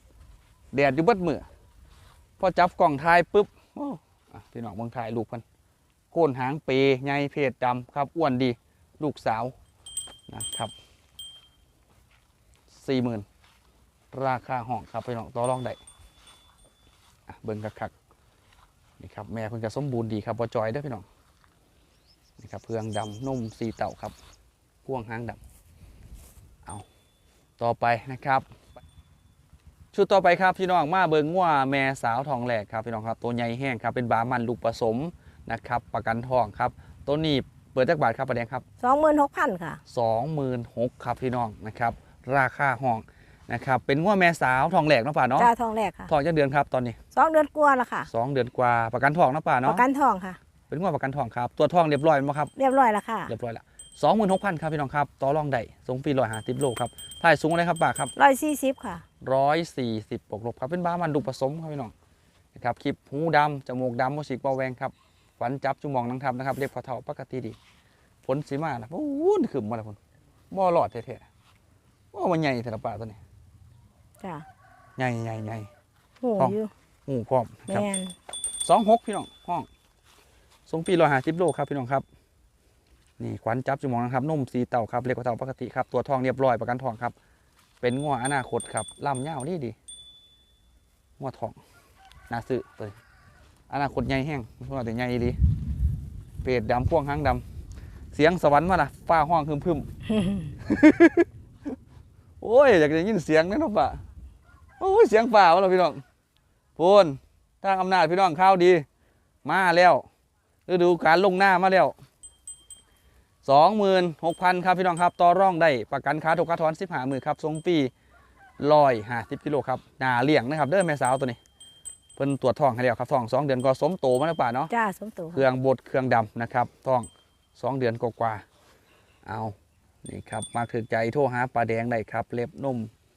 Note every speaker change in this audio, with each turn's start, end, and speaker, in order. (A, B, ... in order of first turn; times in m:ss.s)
0:00.7-0:01.4 A
0:02.4-0:05.4 A
0:06.1-0:09.5 A
0:10.3-0:10.7 A
0:12.7-0:13.2 A
0:14.1-0:15.8 A
0:17.3-0:17.9 A
0:19.0-0:21.0 A
0:22.4-0:24.2 A
0:24.8-0:25.4 A
0:27.6-0:28.4 A
0:29.9-0:38.6 A
0:38.8-0:39.8 B
0:39.9-0:45.5 A
0:45.4-0:46.1 B
0:46.1-0:47.0 A
0:47.1-0:48.1 B
0:48.1-0:49.8 A
0:49.6-0:50.4 B
0:50.7-0:52.5 A
0:52.6-0:53.3 B
0:53.3-0:58.1 A
0:58.2-0:59.0 B
0:59.2-1:01.9 A
1:02.5-1:07.6 A
1:08.2-1:10.0 A
1:10.5-1:11.2 A
1:12.1-1:13.2 A
1:14.2-1:14.4 B
1:15.0-1:15.7 A
1:16.2-1:16.7 B
1:16.4-1:17.9 A
1:17.7-1:18.1 B
1:18.6-1:19.7 A
1:20.7-1:22.0 A
1:23.2-1:27.1 A
1:27.8-1:29.8 A
1:31.2-1:31.6 A
1:32.3-1:32.9 A
1:33.7-1:35.4 A
1:36.4-1:37.4 A
1:38.1-1:39.9 A
1:40.6-1:41.3 A
1:42.4-1:44.0 A
1:44.8-1:46.0 A
1:46.8-1:48.8 A
1:49.4-1:50.0 A
1:50.7-1:52.0 A
1:53.4-1:57.9 A
1:58.6-2:01.4 A
2:02.2-2:04.7 A
2:04.7-2:05.4 B
2:05.3-2:08.4 A
2:09.2-2:12.9 A